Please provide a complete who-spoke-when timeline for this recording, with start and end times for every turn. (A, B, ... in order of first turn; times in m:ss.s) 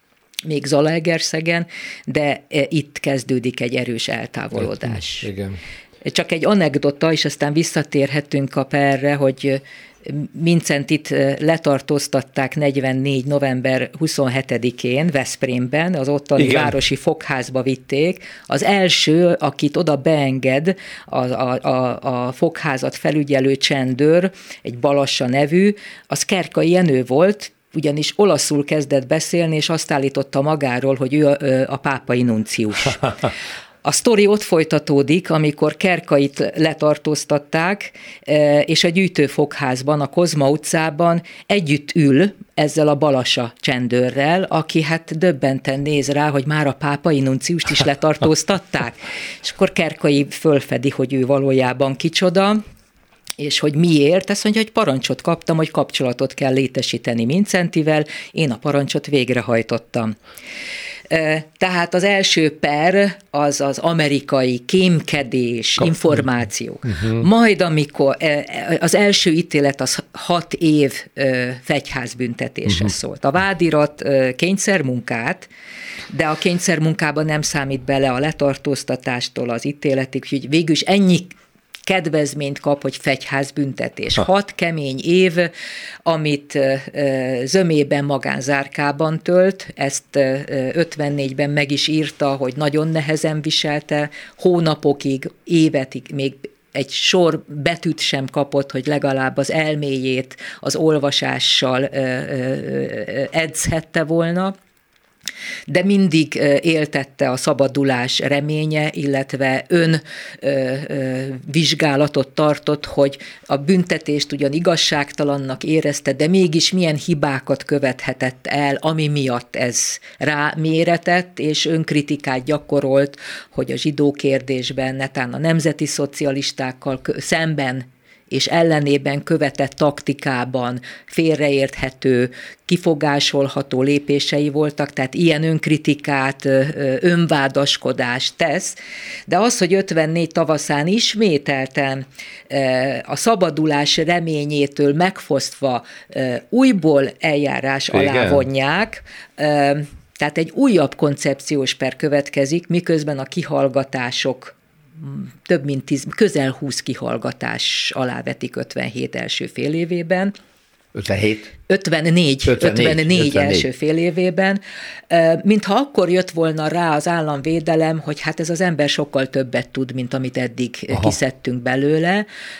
0:00.4-0:05.3 A
0:04.6-0:05.6 B
0:06.0-0:33.2 A
0:16.4-0:16.7 B
0:33.8-0:52.6 A
0:53.4-1:00.1 A
1:01.1-1:15.5 A
1:16.1-1:21.3 A
1:21.8-1:25.5 A
1:26.0-1:44.5 A
1:45.7-2:40.3 A
2:27.9-2:28.4 B
2:40.9-2:41.5 B
2:41.7-2:52.2 A
2:42.4-2:43.7 B